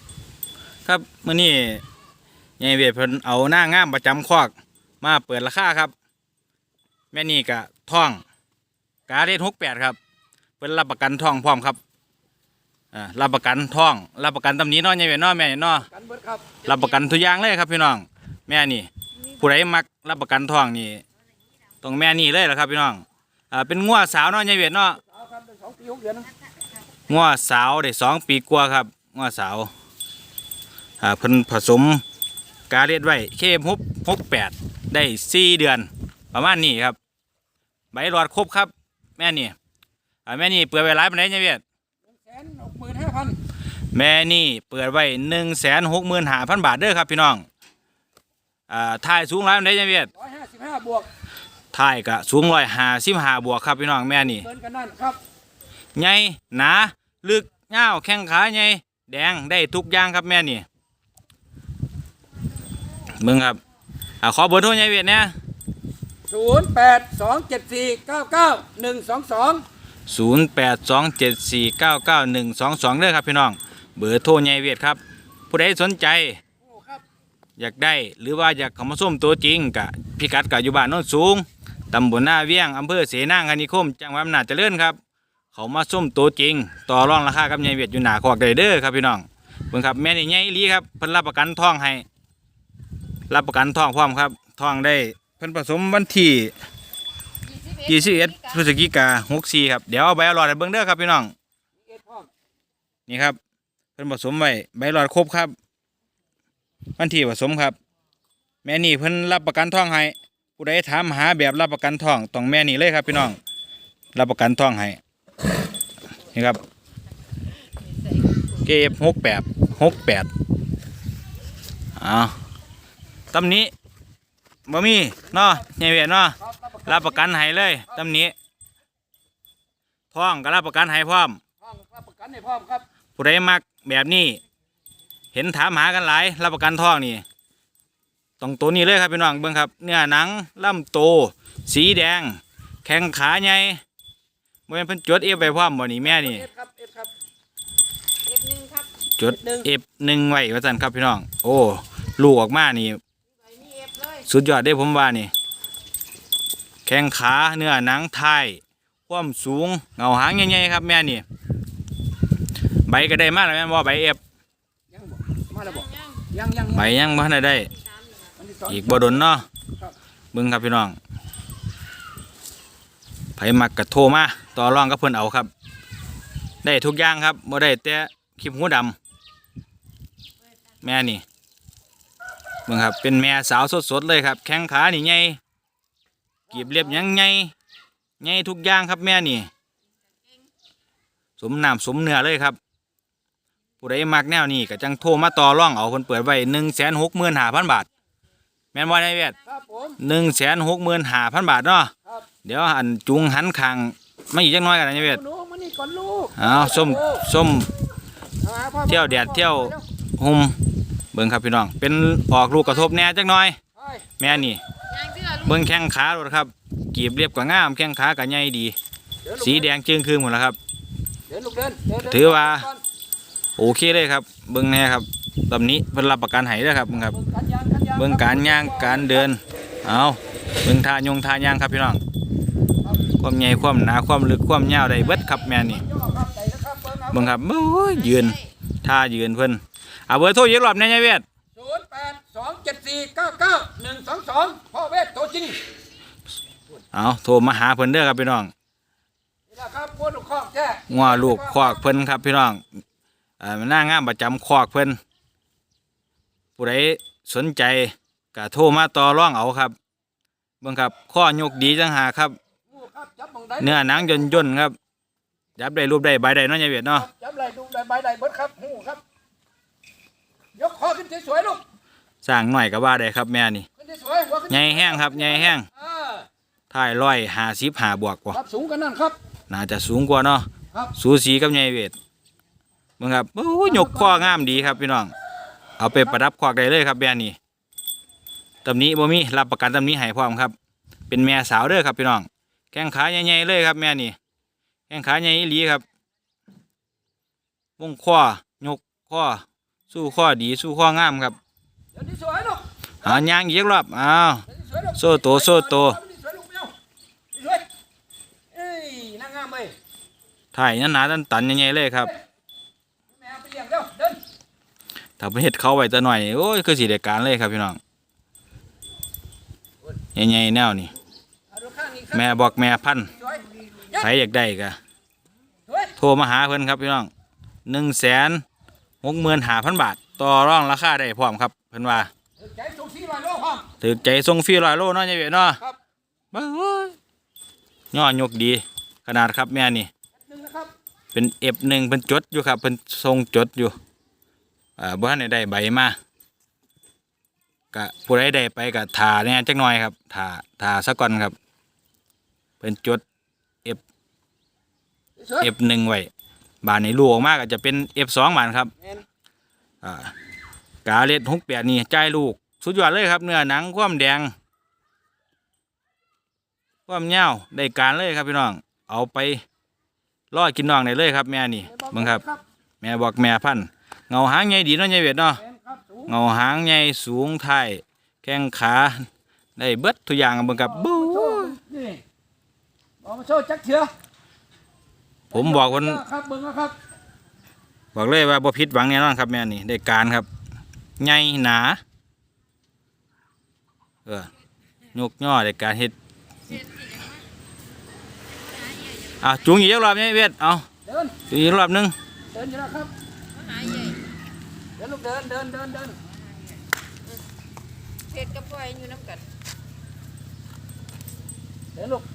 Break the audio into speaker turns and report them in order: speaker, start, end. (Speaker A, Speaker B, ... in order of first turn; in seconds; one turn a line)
Speaker A: 0.8-1.8
Speaker A: 2.6-5.9
Speaker A: 7.1-8.2
Speaker A: 9.1-10.0
Speaker A: 10.6-11.8
Speaker A: 12.9-15.9
Speaker B: 15.9-16.6
Speaker A: 16.6-21.0
Speaker A: 21.8-25.0
Speaker B: 25.1-26.3
Speaker A: 27.1-29.7
Speaker A: 31.0-32.0
Speaker A: 32.7-37.0
Speaker A: 37.9-39.5
Speaker A: 40.3-41.6
Speaker B: 42.1-43.4
Speaker A: 43.9-47.5
Speaker A: 48.7-50.1
Speaker B: 50.1-51.1
Speaker A: 51.7-54.5
Speaker B: 54.3-55.2
Speaker A: 56.0-60.6
Speaker A: 63.2-63.6
Speaker A: 64.2-65.3
Speaker B: 66.3-69.6
Speaker A: 70.1-76.4
Speaker B: 76.7-77.0
Speaker A: 77.6-85.0
Speaker A: 85.5-92.0
Speaker A: 93.3-96.5
Speaker A: 97.8-101.3
Speaker B: 101.9-102.3
Speaker A: 103.1-103.4
Speaker A: 104.0-105.5
Speaker A: 107.0-107.8
Speaker A: 108.6-113.4
Speaker A: 114.2-115.0
Speaker A: 116.3-116.6
Speaker A: 118.6-120.3
Speaker A: 122.0-122.3
Speaker A: 123.3-123.7
Speaker A: 124.7-128.3
Speaker B: 126.4-127.2
Speaker A: 130.1-131.4
Speaker B: 131.6-132.8
Speaker A: 133.2-134.4
Speaker A: 135.3-137.2
Speaker A: 138.4-143.8
Speaker A: 144.7-146.5
Speaker B: 146.0-147.1
Speaker C: 148.3-148.9
Speaker A: 149.2-153.0
Speaker B: 149.3-149.7
Speaker C: 153.6-154.1
Speaker A: 154.2-155.3
Speaker A: 156.8-161.2
Speaker A: 162.9-164.2
Speaker B: 164.9-167.0
Speaker A: 166.7-167.7
Speaker B: 168.4-169.2
Speaker A: 168.7-169.5
Speaker A: 170.3-171.0
Speaker A: 173.4-175.5
Speaker A: 176.6-179.0
Speaker A: 180.8-181.2
Speaker A: 182.7-185.4
Speaker B: 186.5-187.0
Speaker A: 186.5-187.5
Speaker A: 188.2-189.5
Speaker A: 191.4-192.6
Speaker A: 193.8-197.9
Speaker A: 198.7-199.4
Speaker B: 199.5-200.0
Speaker A: 200.0-201.9
Speaker A: 202.4-205.2
Speaker B: 205.0-207.2
Speaker A: 206.4-207.7
Speaker B: 208.4-209.8
Speaker A: 208.9-210.6
Speaker A: 211.1-213.6
Speaker B: 213.8-214.1
Speaker A: 214.2-214.6
Speaker A: 215.3-218.8
Speaker B: 219.3-219.7
Speaker A: 219.4-220.6
Speaker B: 221.3-222.8
Speaker A: 222.0-222.7
Speaker A: 223.6-227.2
Speaker B: 227.1-229.3
Speaker A: 228.0-232.0
Speaker A: 233.2-235.8
Speaker B: 235.7-237.3
Speaker A: 237.1-241.2
Speaker B: 241.6-245.6
Speaker A: 246.9-248.5
Speaker B: 249.5-251.8
Speaker A: 250.9-252.6
Speaker A: 253.4-255.0
Speaker A: 256.6-259.8
Speaker A: 260.6-262.4
Speaker B: 262.7-264.4
Speaker A: 263.6-264.8
Speaker A: 265.6-267.1
Speaker B: 267.0-269.0
Speaker B: 270.6-271.6
Speaker A: 272.2-273.7
Speaker B: 273.8-276.3
Speaker A: 274.5-275.7
Speaker A: 276.7-278.4
Speaker B: 278.3-279.2
Speaker A: 279.5-281.9
Speaker A: 283.0-285.1
Speaker B: 283.7-284.3
Speaker A: 285.8-287.4
Speaker A: 288.6-290.5
Speaker A: 291.1-294.2
Speaker A: 294.9-295.8
Speaker A: 297.8-301.4
Speaker B: 301.9-303.2
Speaker A: 303.0-306.0
Speaker B: 304.5-306.7
Speaker B: 307.4-307.7
Speaker B: 308.5-309.7
Speaker A: 310.5-312.1
Speaker B: 313.1-314.2
Speaker A: 315.2-317.8
Speaker A: 320.1-320.9
Speaker B: 321.5-322.4
Speaker A: 322.1-323.1
Speaker B: 323.2-324.0
Speaker A: 323.9-324.8
Speaker B: 325.7-325.9
Speaker A: 326.0-327.1
Speaker A: 327.7-328.4
Speaker A: 329.0-332.1
Speaker B: 332.4-333.7
Speaker A: 333.8-335.6
Speaker A: 336.3-337.0
Speaker A: 337.9-339.9
Speaker B: 340.2-340.7
Speaker A: 341.1-343.8
Speaker A: 344.8-346.0
Speaker A: 347.7-351.3
Speaker A: 352.6-353.0
Speaker B: 355.2-355.5
Speaker A: 355.4-356.1
Speaker A: 356.6-358.7
Speaker A: 359.8-360.1
Speaker A: 360.9-364.3
Speaker A: 366.9-369.4
Speaker A: 370.3-372.2
Speaker B: 371.7-372.4
Speaker A: 372.8-375.4
Speaker B: 375.4-376.1
Speaker A: 376.1-381.6
Speaker B: 380.6-382.0
Speaker B: 383.0-383.9
Speaker A: 385.3-386.0
Speaker B: 385.3-386.8
Speaker A: 387.9-390.3
Speaker A: 391.0-391.8
Speaker A: 394.9-395.9
Speaker A: 399.2-400.7
Speaker B: 400.9-401.2
Speaker A: 401.3-401.9
Speaker B: 402.3-402.9
Speaker C: 403.5-404.0
Speaker B: 404.8-406.0
Speaker C: 408.1-409.2
Speaker B: 411.8-412.1